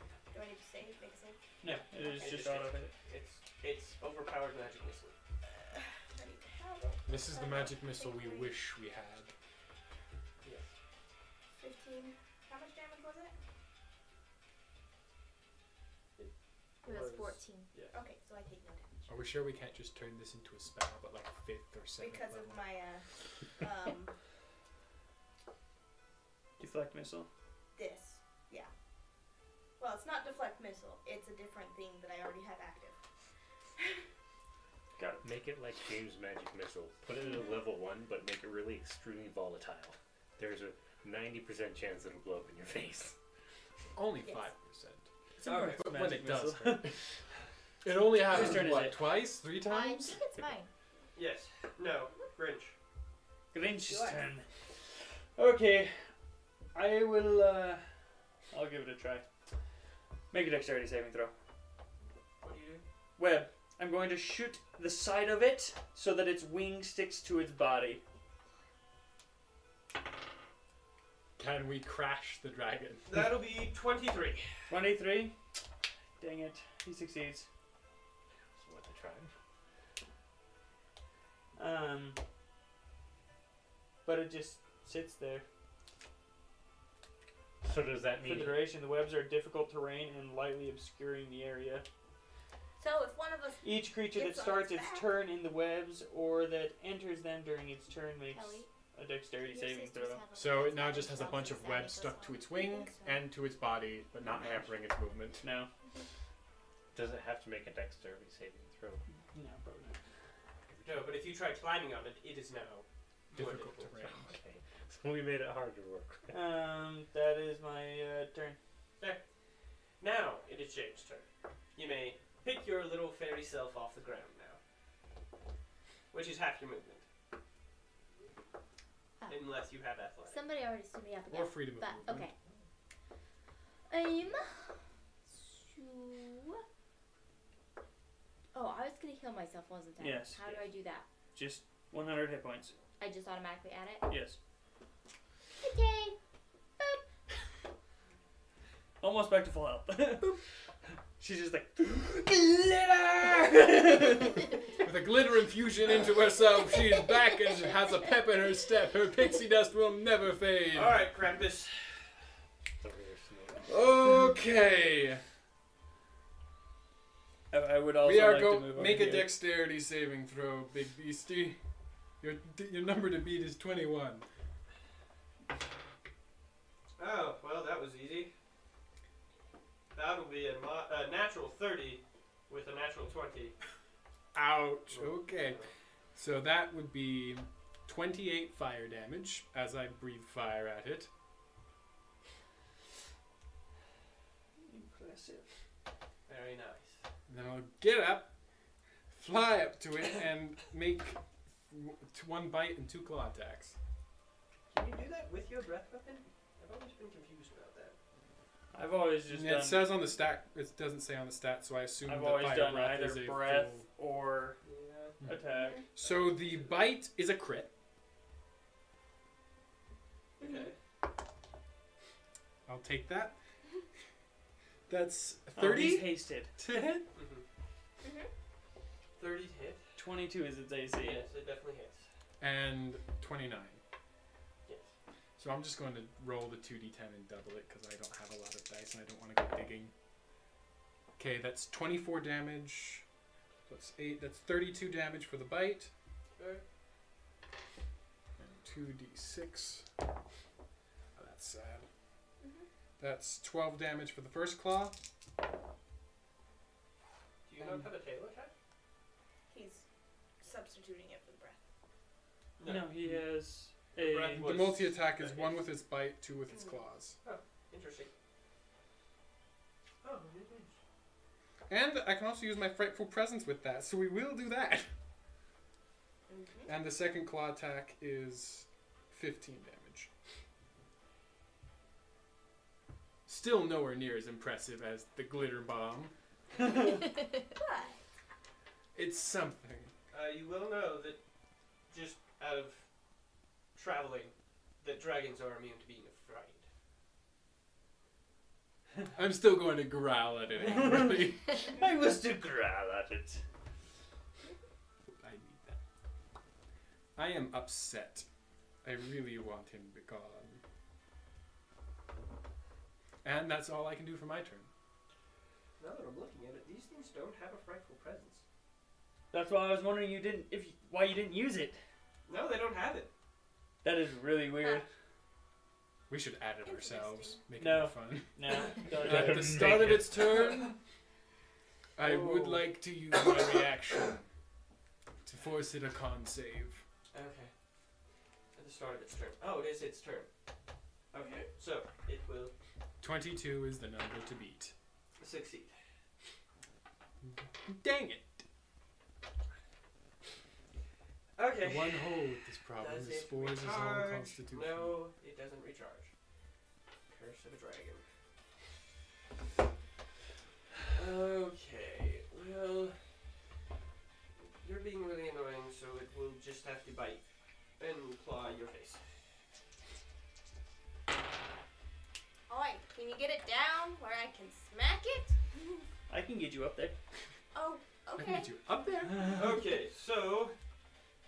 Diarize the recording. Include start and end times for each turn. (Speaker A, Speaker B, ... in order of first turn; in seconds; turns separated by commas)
Speaker A: 0.3-1.5, Speaker B: 1.6-2.9, Speaker C: 2.1-5.2, Speaker A: 5.5-8.6, Speaker D: 7.1-9.3, Speaker C: 10.4-10.7, Speaker A: 11.6-13.3, Speaker E: 16.8-17.7, Speaker C: 16.8-17.9, Speaker A: 17.9-19.1, Speaker D: 19.1-22.6, Speaker A: 22.0-23.1, Speaker A: 23.6-24.1, Speaker B: 26.6-27.3, Speaker A: 27.8-28.7, Speaker A: 29.8-33.0, Speaker B: 35.0-35.3, Speaker F: 35.2-43.2, Speaker D: 44.0-47.0, Speaker A: 44.2-44.5, Speaker B: 45.4-47.0, Speaker D: 47.8-50.2, Speaker B: 48.3-49.1, Speaker E: 49.6-50.7, Speaker C: 51.1-52.8, Speaker B: 53.5-56.1, Speaker B: 56.7-57.9, Speaker B: 58.5-59.2, Speaker B: 60.3-61.3, Speaker C: 62.4-62.9, Speaker B: 63.2-68.0, Speaker D: 71.4-73.2, Speaker C: 73.1-74.5, Speaker B: 74.7-75.3, Speaker B: 76.2-77.5, Speaker F: 78.6-79.3, Speaker B: 81.6-82.2, Speaker B: 84.0-85.5, Speaker F: 87.6-88.7, Speaker B: 88.2-91.8, Speaker A: 92.8-95.1, Speaker B: 93.6-100.2, Speaker E: 98.3-98.7, Speaker E: 99.5-103.2, Speaker D: 100.3-105.5, Speaker B: 105.4-105.7, Speaker F: 106.9-109.0, Speaker B: 109.3-110.0, Speaker C: 110.8-113.9, Speaker D: 113.3-114.4, Speaker F: 114.0-116.4, Speaker B: 116.3-118.6, Speaker C: 120.0-124.6, Speaker C: 126.1-127.0, Speaker C: 129.3-130.4, Speaker E: 130.3-132.3, Speaker D: 131.3-132.3, Speaker E: 133.9-136.6, Speaker E: 138.5-141.1, Speaker B: 140.0-140.7, Speaker B: 141.3-142.8, Speaker E: 143.0-144.1, Speaker B: 144.1-144.4, Speaker E: 145.6-146.2, Speaker B: 149.0-150.4, Speaker B: 151.2-154.5, Speaker D: 154.8-161.1, Speaker C: 160.7-162.1, Speaker F: 162.8-163.8, Speaker D: 163.7-165.2, Speaker B: 167.5-169.3, Speaker D: 168.0-171.6, Speaker D: 172.2-174.3, Speaker C: 177.0-178.3, Speaker C: 179.9-183.6, Speaker D: 184.3-191.1, Speaker C: 184.9-185.7, Speaker B: 194.7-195.5, Speaker C: 196.3-197.0, Speaker D: 197.3-198.3, Speaker D: 199.1-203.8, Speaker C: 204.7-208.0, Speaker B: 208.7-210.0, Speaker D: 209.3-213.9, Speaker B: 212.1-214.6, Speaker C: 214.6-215.3, Speaker B: 215.2-215.8, Speaker A: 215.6-215.8, Speaker D: 215.9-217.7, Speaker C: 216.0-216.9, Speaker A: 220.4-220.7, Speaker C: 220.4-220.7, Speaker D: 222.7-223.4, Speaker D: 224.9-227.1, Speaker B: 225.6-226.5, Speaker C: 227.1-227.4, Speaker A: 228.0-228.3, Speaker C: 229.2-229.8, Speaker B: 230.0-231.3, Speaker C: 231.0-232.0, Speaker D: 232.4-233.8, Speaker D: 235.4-239.9, Speaker D: 241.2-243.1, Speaker D: 243.7-245.9, Speaker C: 246.4-246.6, Speaker D: 248.4-249.9, Speaker D: 251.2-251.9, Speaker A: 252.4-252.7, Speaker D: 253.0-255.0, Speaker C: 257.5-258.5, Speaker A: 259.5-259.8, Speaker A: 260.4-261.6, Speaker C: 262.6-262.9, Speaker B: 262.6-264.4, Speaker C: 264.0-265.6, Speaker D: 264.4-267.2, Speaker C: 267.2-268.1, Speaker C: 270.0-270.8, Speaker D: 271.7-274.9, Speaker A: 276.3-276.7, Speaker D: 276.7-280.1, Speaker D: 283.3-286.1, Speaker A: 287.5-288.0, Speaker D: 288.9-289.9, Speaker C: 290.1-291.2, Speaker C: 291.9-292.9, Speaker C: 293.8-296.6, Speaker D: 299.1-301.6, Speaker B: 300.6-303.4, Speaker D: 305.1-305.8, Speaker D: 307.2-308.3, Speaker D: 308.8-310.6, Speaker D: 313.2-314.7, Speaker C: 315.8-318.4, Speaker B: 319.3-321.8, Speaker C: 322.3-323.1, Speaker B: 323.8-324.9, Speaker D: 326.1-328.3, Speaker A: 326.6-327.4, Speaker B: 327.6-329.9, Speaker D: 328.9-330.8, Speaker F: 329.0-330.2, Speaker D: 332.0-334.3, Speaker B: 332.0-332.7, Speaker D: 335.2-336.8, Speaker C: 337.1-337.5, Speaker C: 338.6-340.3, Speaker C: 341.1-342.5, Speaker A: 341.2-341.5, Speaker D: 343.0-344.7, Speaker C: 345.2-345.8, Speaker D: 347.2-348.4, Speaker C: 351.4-356.1, Speaker D: 351.6-355.0, Speaker C: 357.1-358.0, Speaker C: 360.9-363.0, Speaker C: 364.6-367.2, Speaker C: 367.8-369.0, Speaker A: 372.5-375.8, Speaker B: 376.1-377.0, Speaker A: 377.5-378.5, Speaker D: 378.2-379.5, Speaker C: 379.1-380.6